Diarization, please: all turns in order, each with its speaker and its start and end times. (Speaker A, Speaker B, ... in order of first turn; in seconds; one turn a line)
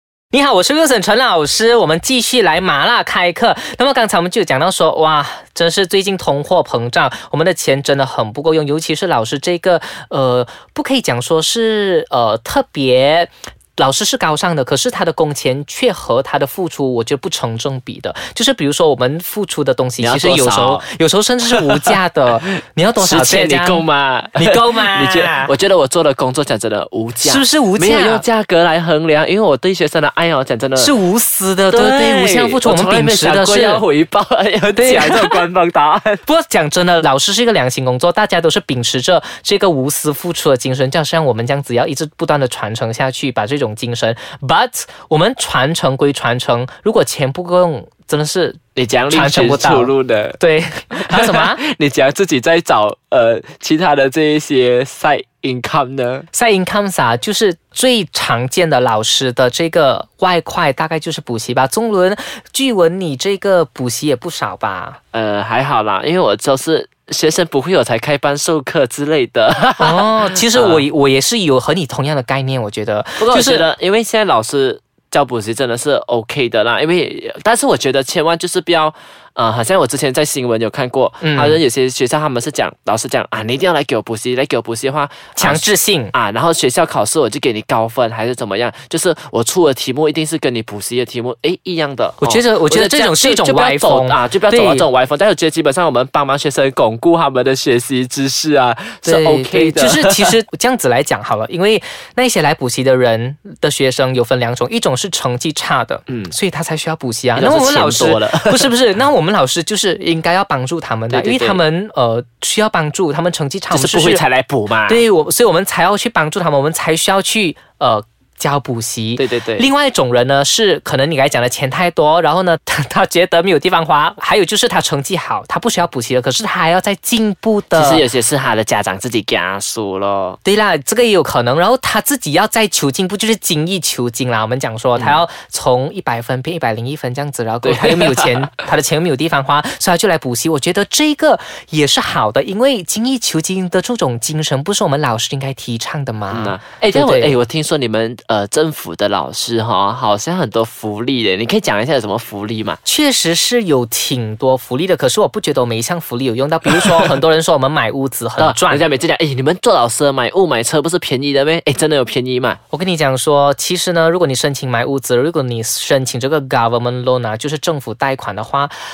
Speaker A: 0.3-23.8
Speaker B: 20.0-20.8
Speaker B: 21.5-21.9
Speaker B: 23.0-30.9
Speaker A: 24.4-25.5
Speaker A: 27.2-28.2
Speaker A: 30.8-33.8
Speaker B: 31.7-36.2
Speaker A: 34.7-35.4
Speaker A: 36.2-48.6
Speaker B: 48.8-50.4
Speaker A: 49.1-51.6
Speaker B: 51.0-56.3
Speaker A: 56.3-65.0
Speaker B: 65.1-70.8
Speaker A: 69.8-73.7
Speaker B: 73.2-100.3
Speaker A: 81.2-81.6
Speaker A: 85.3-86.1
Speaker A: 92.2-94.8
Speaker A: 99.0-114.2
Speaker B: 106.1-106.3
Speaker B: 107.3-108.7
Speaker B: 111.1-111.6
Speaker B: 113.7-115.0
Speaker A: 114.9-128.1
Speaker B: 119.2-119.7
Speaker B: 127.7-130.4
Speaker A: 130.4-147.4
Speaker B: 137.6-138.6
Speaker B: 146.3-152.8
Speaker A: 152.8-158.8
Speaker B: 158.4-162.6
Speaker A: 162.7-168.7